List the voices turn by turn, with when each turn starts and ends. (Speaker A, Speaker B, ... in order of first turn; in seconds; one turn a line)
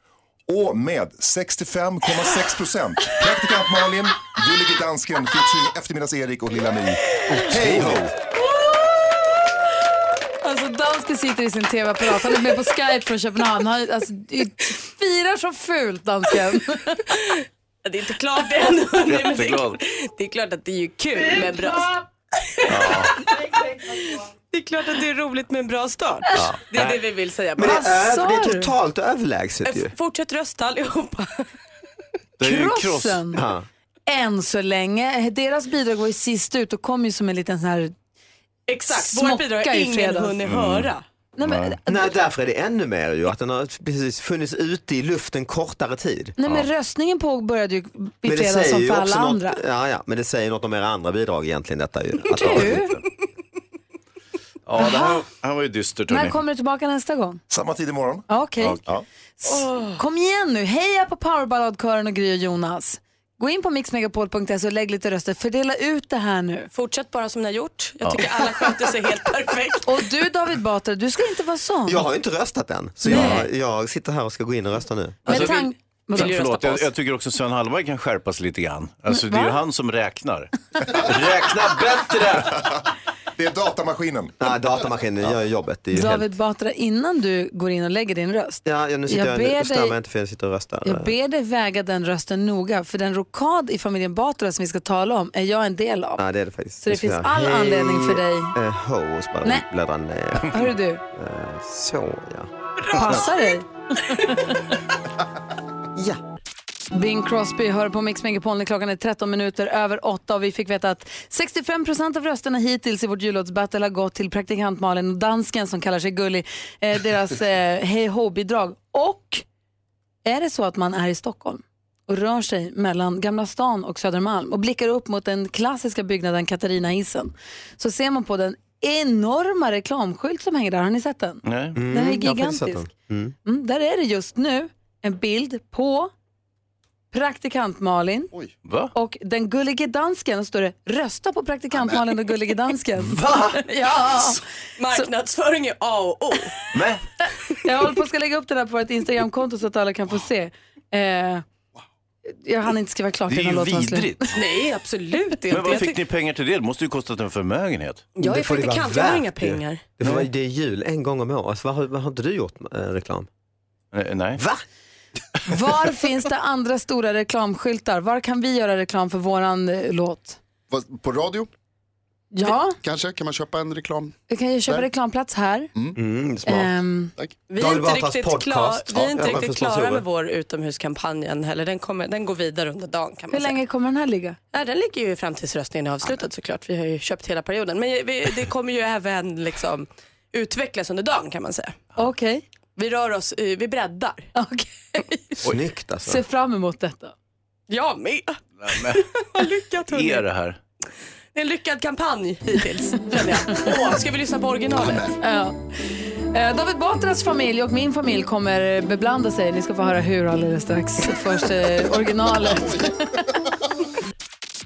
Speaker A: 0.5-8.1
Speaker B: 7.6-8.0
Speaker C: 10.4-17.0
Speaker D: 17.1-21.9
Speaker B: 19.0-19.8
Speaker C: 21.3-21.7
Speaker D: 22.6-23.1
Speaker B: 22.7-23.2
Speaker C: 23.4-24.0
Speaker D: 23.9-27.9
Speaker E: 26.3-26.8
Speaker E: 27.6-29.9
Speaker C: 27.6-28.7
Speaker D: 29.6-31.5
Speaker B: 32.4-33.3
Speaker C: 32.4-33.4
Speaker E: 33.4-33.7
Speaker C: 34.1-37.9
Speaker D: 38.7-41.0
Speaker C: 38.9-40.4
Speaker B: 40.4-40.9
Speaker C: 41.4-42.1
Speaker B: 41.4-41.8
Speaker E: 41.9-46.4
Speaker C: 46.4-49.6
Speaker E: 48.2-53.0
Speaker C: 52.3-53.0
Speaker B: 52.4-52.7
Speaker B: 54.6-56.4
Speaker C: 54.8-55.2
Speaker C: 56.1-57.4
Speaker A: 57.5-58.9
Speaker C: 58.3-58.8
Speaker B: 58.6-59.0
Speaker C: 59.4-66.7
Speaker D: 59.5-60.0
Speaker D: 66.7-70.0
Speaker C: 69.8-72.0
Speaker E: 71.9-75.3
Speaker D: 73.1-73.5
Speaker B: 73.1-73.4
Speaker C: 73.1-73.4
Speaker B: 75.3-75.6
Speaker C: 75.3-76.4
Speaker D: 75.3-76.8
Speaker B: 76.1-82.0
Speaker C: 79.1-79.6
Speaker E: 81.0-82.5
Speaker A: 82.5-82.8
Speaker A: 83.4-84.4
Speaker E: 84.4-86.3
Speaker C: 85.9-89.9
Speaker E: 88.6-91.1
Speaker C: 90.8-96.2
Speaker E: 96.2-100.6
Speaker C: 96.8-98.5
Speaker C: 100.5-101.0
Speaker E: 101.1-103.2
Speaker C: 102.9-104.6
Speaker C: 106.9-119.4
Speaker C: 120.2-132.8
Speaker B: 131.4-131.8
Speaker E: 131.7-133.3
Speaker C: 133.4-136.1
Speaker C: 137.1-138.3
Speaker B: 138.6-138.9
Speaker C: 138.9-144.4
Speaker D: 144.8-146.5
Speaker B: 146.7-147.0
Speaker C: 147.6-151.4
Speaker C: 152.3-154.3
Speaker B: 153.3-154.3
Speaker D: 154.3-156.0
Speaker B: 155.5-158.1
Speaker D: 158.2-159.8
Speaker E: 158.2-163.3
Speaker B: 160.0-160.3
Speaker B: 163.9-164.4
Speaker C: 165.5-170.4
Speaker F: 170.7-171.5
Speaker C: 172.3-172.8
Speaker F: 172.8-174.2
Speaker C: 174.3-175.7
Speaker E: 175.9-176.7
Speaker C: 176.4-177.1
Speaker F: 177.2-177.4
Speaker D: 177.5-183.6
Speaker E: 177.5-180.0
Speaker C: 183.3-184.4
Speaker D: 184.5-191.8
Speaker C: 192.0-192.4
Speaker D: 192.8-194.3
Speaker C: 194.3-195.4
Speaker E: 195.4-196.2
Speaker C: 196.0-197.1
Speaker D: 197.7-200.2
Speaker B: 198.6-199.0
Speaker B: 199.9-200.6
Speaker D: 201.3-205.2
Speaker C: 205.2-205.7
Speaker C: 206.3-213.2